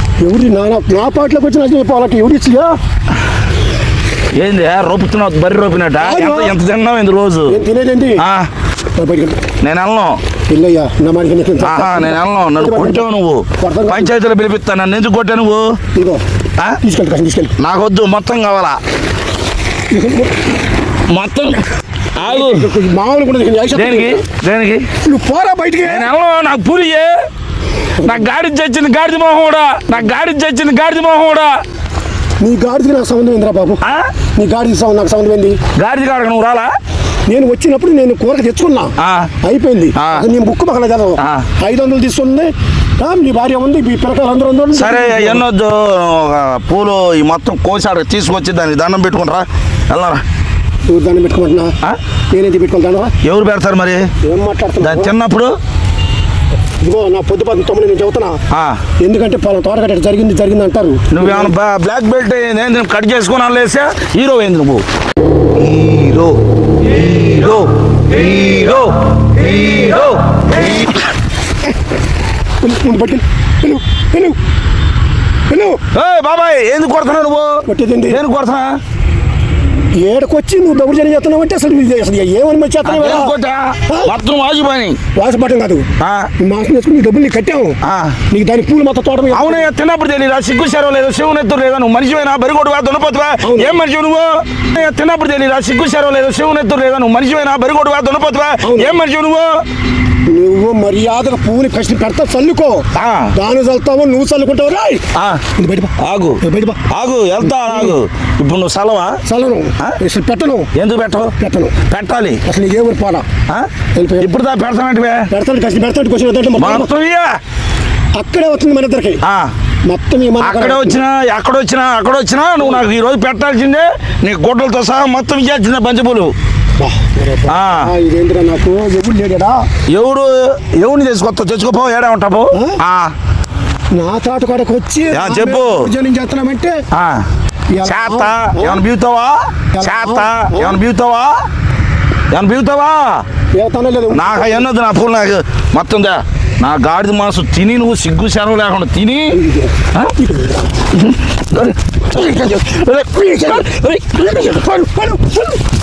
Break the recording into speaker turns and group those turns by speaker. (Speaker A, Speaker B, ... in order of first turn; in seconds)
Speaker A: 0.2-2.7, 6.0-6.5, 7.5-8.2, 9.0-9.4, 10.5-13.1, 13.6-14.1, 15.9-16.2, 16.8-17.5, 19.9-20.3, 22.2-24.2, 25.0-26.1, 28.0-28.2, 32.4-33.8, 34.4-35.6, 37.3-45.4, 50.9-51.7, 52.3-53.1, 54.2-55.1, 56.8-58.4, 59.0-61.5, 72.6-74.3, 75.5-75.8, 77.7-78.2, 80.0-83.3, 85.2-85.9, 86.4-87.8, 88.3-89.7, 93.4-93.8, 98.6-99.0, 100.3-105.0, 105.5-106.8, 107.4-108.0, 109.2-110.7, 111.4-111.7, 112.4-113.3, 114.0-114.3, 115.3-116.9, 118.2-119.2, 119.9-121.0, 126.8-129.6, 132.5-132.8, 133.9-136.8, 137.7-138.8, 139.7-140.8, 143.5-144.7, 149.3-150.7, 154.3-155.4
Speaker B: 4.3-7.6, 8.2-8.5, 9.6-10.2, 11.6-15.7, 17.6-18.8, 21.1-21.6, 22.2-22.7, 23.7-24.9, 25.8-27.1, 28.0-31.5, 35.8-36.7, 39.0-39.3, 40.0-40.2, 41.2-41.5, 44.7-50.2, 53.2-54.1, 54.8-55.5, 58.5-58.8, 61.1-64.8, 65.6-71.0, 75.9-78.8, 82.8-85.0, 86.0-86.3, 87.8-88.2, 89.3-99.5, 102.9-103.3, 105.1-105.4, 106.0-109.2, 110.7-111.3, 111.9-112.4, 114.2-115.3, 116.6-117.3, 119.2-119.5, 120.4-126.3, 127.5-127.9, 129.9-133.1, 135.1-135.9, 136.9-137.2, 137.8-141.3, 142.3-143.2, 144.1-149.4, 150.9-154.8